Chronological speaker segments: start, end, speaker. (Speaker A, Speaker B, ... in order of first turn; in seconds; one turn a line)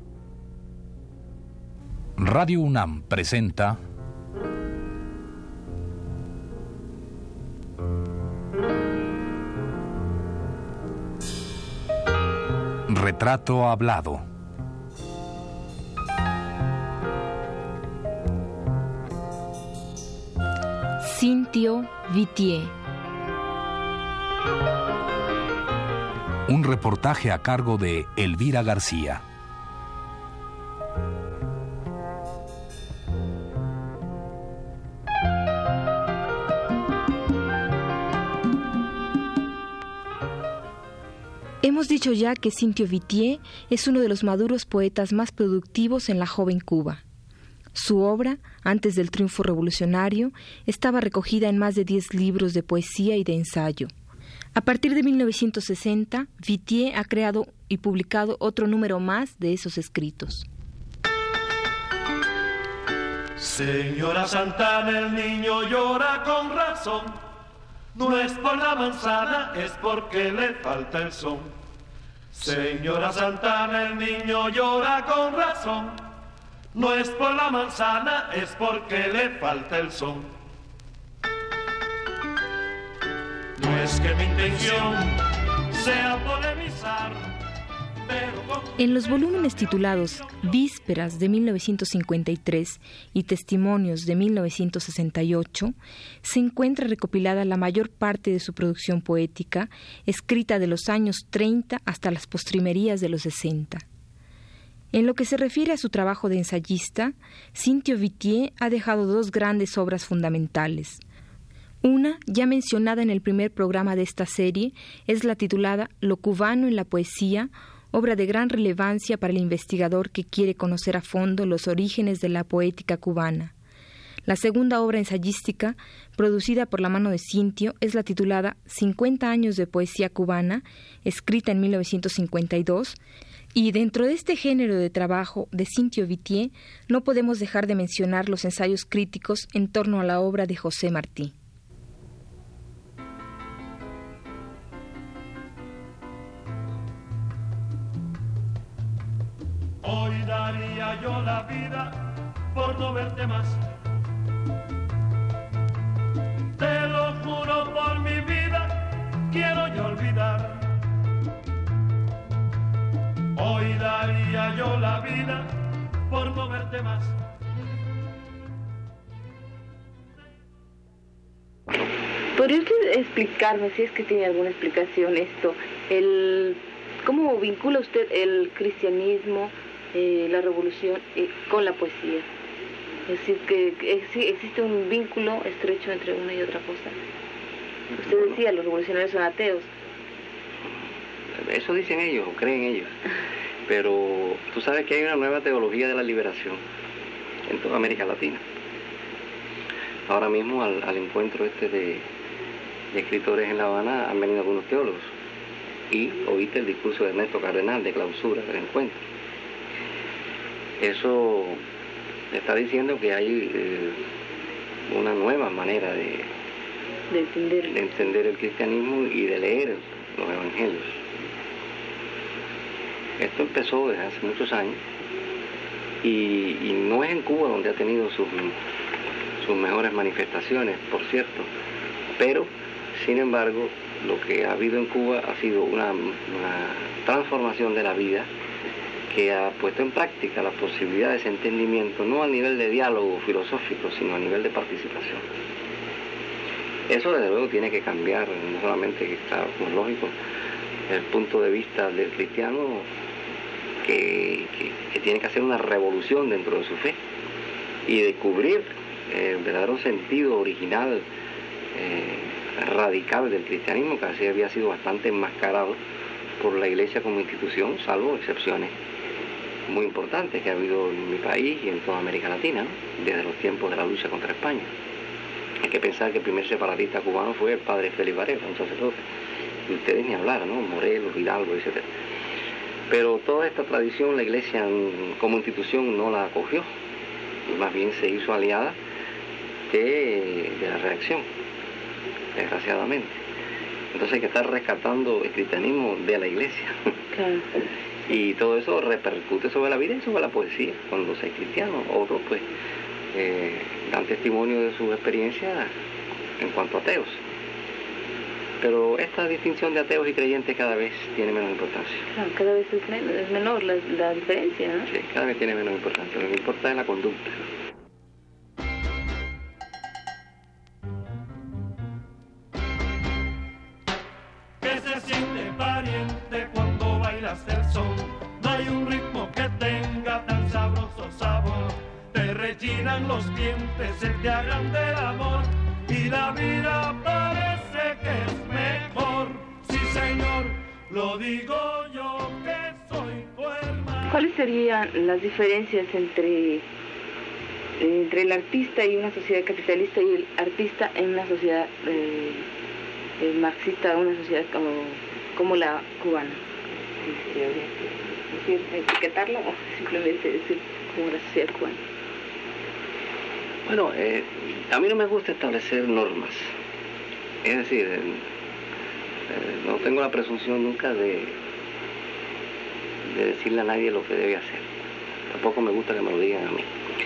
Speaker A: 2.2-3.8
Speaker A: 12.9-14.2
Speaker B: 21.0-22.7
Speaker A: 26.5-29.2
Speaker B: 41.6-47.0
Speaker B: 47.7-53.9
Speaker B: 54.5-60.5
Speaker C: 63.4-67.2
Speaker C: 67.9-71.5
Speaker C: 72.3-76.1
Speaker C: 76.7-80.3
Speaker C: 83.6-87.3
Speaker C: 88.0-90.4
Speaker B: 88.8-103.8
Speaker B: 104.9-111.0
Speaker B: 111.8-123.5
Speaker B: 124.2-133.0
Speaker B: 133.5-141.3
Speaker C: 149.8-153.6
Speaker C: 156.6-160.8
Speaker C: 163.3-165.5
Speaker C: 166.1-167.2
Speaker D: 172.3-182.2
Speaker D: 183.1-186.9
Speaker E: 187.9-188.3
Speaker D: 188.0-189.7
Speaker E: 191.3-192.9
Speaker E: 193.7-196.6
Speaker E: 197.5-198.4
Speaker E: 200.1-202.1
Speaker E: 202.9-205.1
Speaker E: 205.9-209.0
Speaker E: 210.8-211.6
Speaker E: 212.3-214.0
Speaker E: 214.9-216.3
Speaker D: 217.1-217.7
Speaker E: 217.7-221.0
Speaker E: 223.2-224.8
Speaker E: 226.0-228.5
Speaker E: 229.4-231.5
Speaker E: 232.2-238.3
Speaker E: 239.1-245.2
Speaker E: 246.9-250.1
Speaker E: 250.9-252.9
Speaker E: 253.8-257.0
Speaker E: 257.9-261.0
Speaker E: 261.7-265.8
Speaker E: 266.4-268.8
Speaker E: 269.7-274.7
Speaker E: 275.6-279.0
Speaker E: 279.7-281.9
Speaker E: 282.9-286.7
Speaker E: 287.4-288.8
Speaker E: 289.7-291.2
Speaker E: 292.4-293.2
Speaker E: 293.9-296.9
Speaker D: 297.1-297.4
Speaker E: 298.1-302.4
Speaker E: 303.1-305.7
Speaker E: 306.4-307.2
Speaker E: 308.6-312.1
Speaker D: 312.1-314.9
Speaker E: 314.9-317.4
Speaker C: 324.6-344.2
Speaker D: 344.1-346.6
Speaker D: 347.8-352.4
Speaker D: 353.2-356.4
Speaker D: 357.0-361.8
Speaker E: 363.6-366.5
Speaker E: 367.4-368.2
Speaker E: 369.3-371.4
Speaker E: 373.0-374.7
Speaker E: 375.3-376.7